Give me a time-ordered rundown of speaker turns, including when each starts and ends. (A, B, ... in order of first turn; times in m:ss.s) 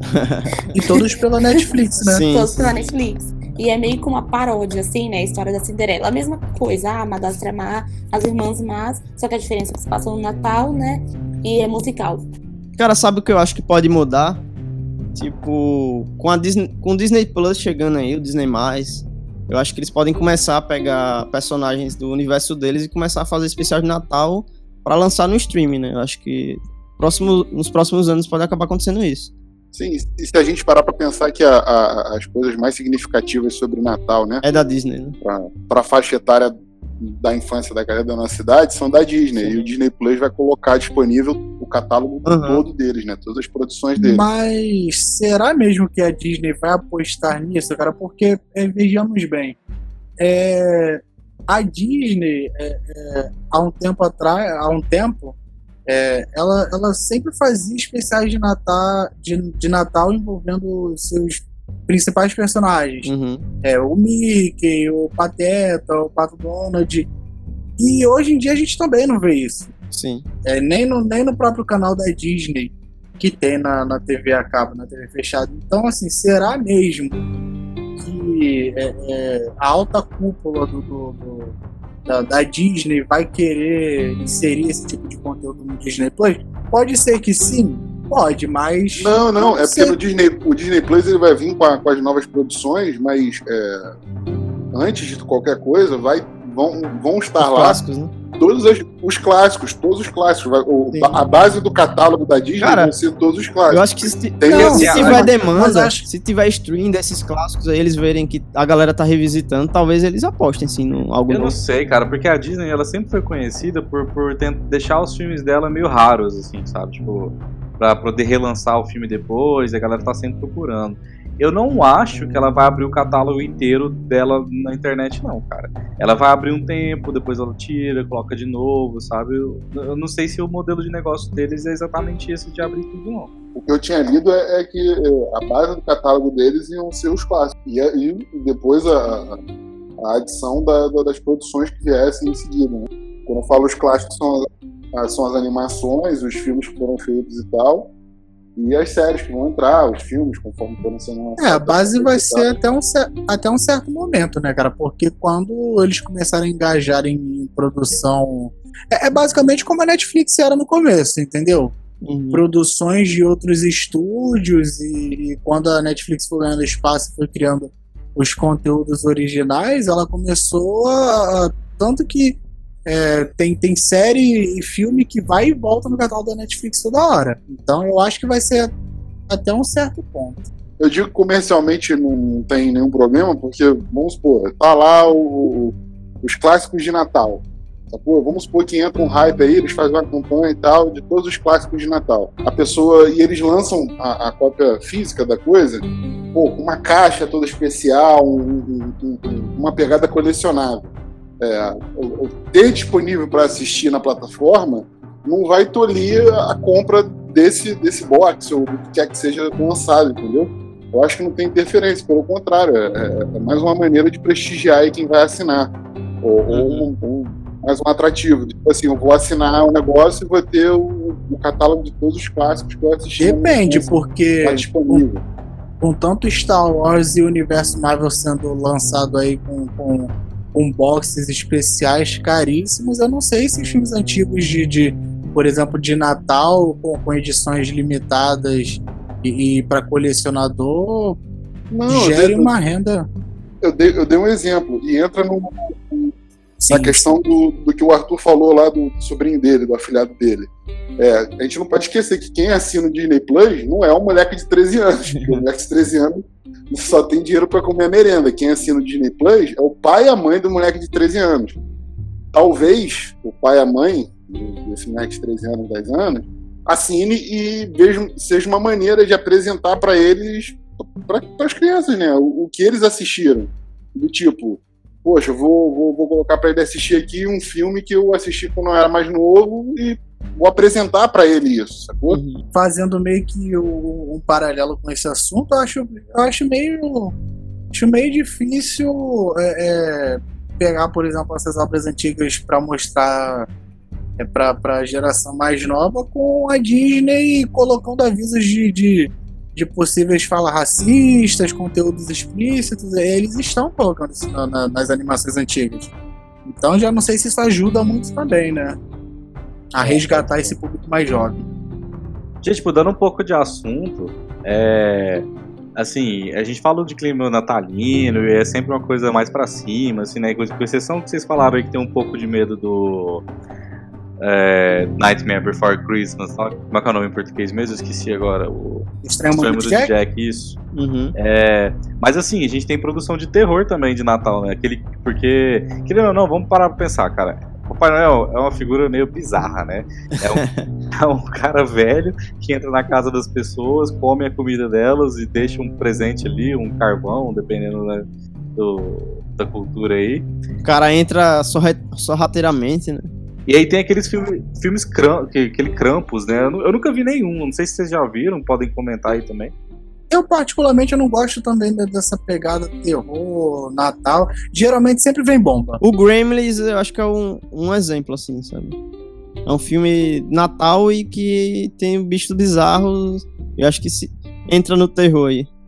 0:00.1-0:00.5 A
0:00.7-0:01.0 B
0:00.7-0:02.3 C
0:02.1-0:02.7 A
0:02.3-0:12.2 B
0:12.8-0:14.4 A
0:15.1-0:29.3 A
0:29.7-0:34.4 D
0:34.4-0:35.2 A
0:35.2-0:44.3 D
0:39.3-0:39.7 A
0:42.2-0:42.6 A
0:44.0-0:49.6 C
0:50.2-1:03.1 C
1:03.0-1:03.4 A
1:03.6-1:07.1 C
1:07.8-1:09.7 C
1:09.9-1:10.2 A
1:10.4-1:17.2 C
1:18.0-1:21.5 C
1:22.0-1:30.0 C
1:29.0-1:33.9 D
1:34.7-1:37.8 D
1:37.4-1:38.1 A
1:38.3-1:45.3 D
1:40.9-1:41.2 A
1:42.6-1:43.0 A
1:43.7-1:51.6 A
1:44.5-1:46.0 C
1:44.6-1:45.2 E
1:51.3-2:13.3 E
2:13.5-2:19.4 D
2:20.0-2:27.9 D
2:28.6-2:32.5 D
2:31.4-2:41.7 C
2:42.0-2:42.4 A
2:42.3-2:58.7 C
2:59.3-3:00.5 C
3:00.8-3:45.2 D
3:36.5-3:36.9 A
3:43.2-3:45.0 C
3:45.8-4:01.2 C
4:01.7-4:02.5 D
4:01.9-4:03.1 C
4:03.6-4:06.1 D
4:06.6-4:07.1 C
4:06.7-4:21.6 D
4:15.1-4:15.4 A
4:22.3-4:42.2 D
4:42.1-4:42.4 A
4:42.5-4:47.1 C
4:47.7-4:53.5 C
4:54.2-5:05.9 C
5:06.4-5:08.8 C
5:09.7-5:11.5 C
5:09.8-5:10.4 A
5:12.4-5:23.2 E
5:24.2-5:30.6 E
5:29.0-5:29.9 C
5:30.7-5:31.1 A
5:31.2-5:50.3 E
5:50.6-5:53.1 A
5:53.5-5:59.5 E
6:00.1-6:05.8 C
6:05.8-6:08.8 A
6:09.4-6:15.5 A